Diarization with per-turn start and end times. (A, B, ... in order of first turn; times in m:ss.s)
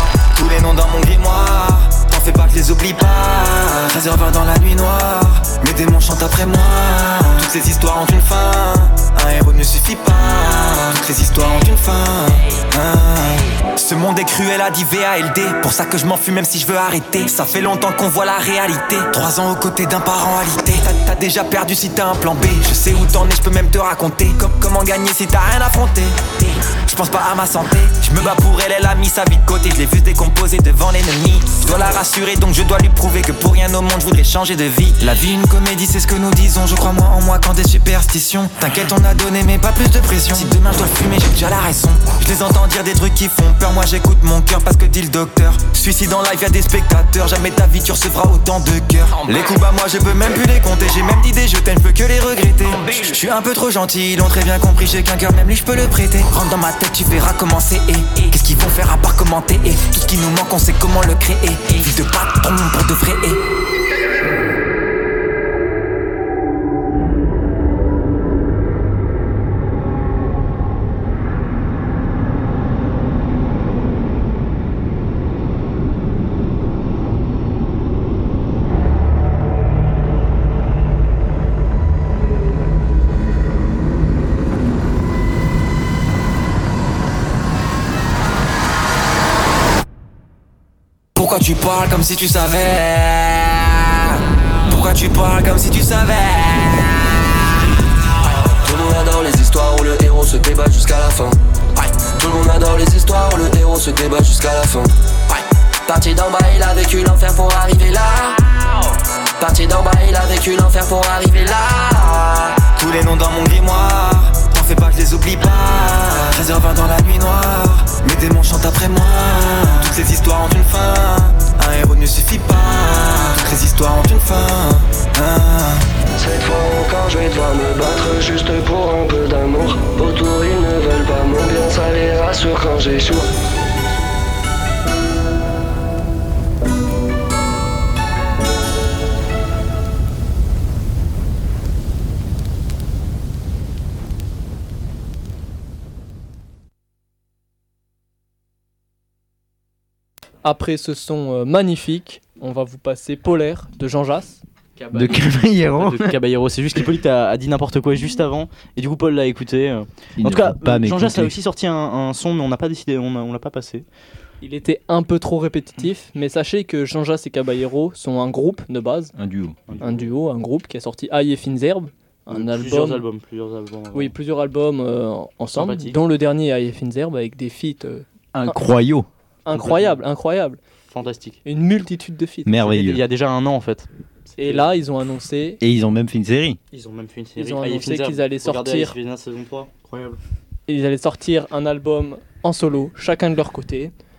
0:00.3-1:03.4 A
1:31.2-1:33.5 A
1:34.6-1:36.7 A
1:38.4-1:41.4 B
1:42.0-1:44.9 B
1:45.9-1:48.4 B
1:49.4-1:52.3 B
1:52.7-2:05.8 A
2:06.2-2:13.3 B
2:30.4-2:34.4 C
2:34.9-2:36.2 D
2:35.8-2:43.8 E
2:40.2-2:41.4 D
2:44.4-2:49.1 C
2:49.2-2:49.6 D
2:49.7-2:50.1 E
2:49.8-2:53.0 C
2:52.3-2:54.1 E
2:53.9-2:58.6 C
2:55.5-2:56.0 E
2:58.3-2:59.1 D
2:59.4-3:00.6 C
2:59.5-3:00.0 E
3:00.9-3:01.4 E
3:01.4-3:02.8 C
3:02.4-3:03.0 D
3:02.6-3:04.7 E
3:04.4-3:05.6 C
3:05.6-3:06.6 D
3:06.7-3:10.2 E
3:07.4-3:09.0 C
3:10.7-3:13.9 C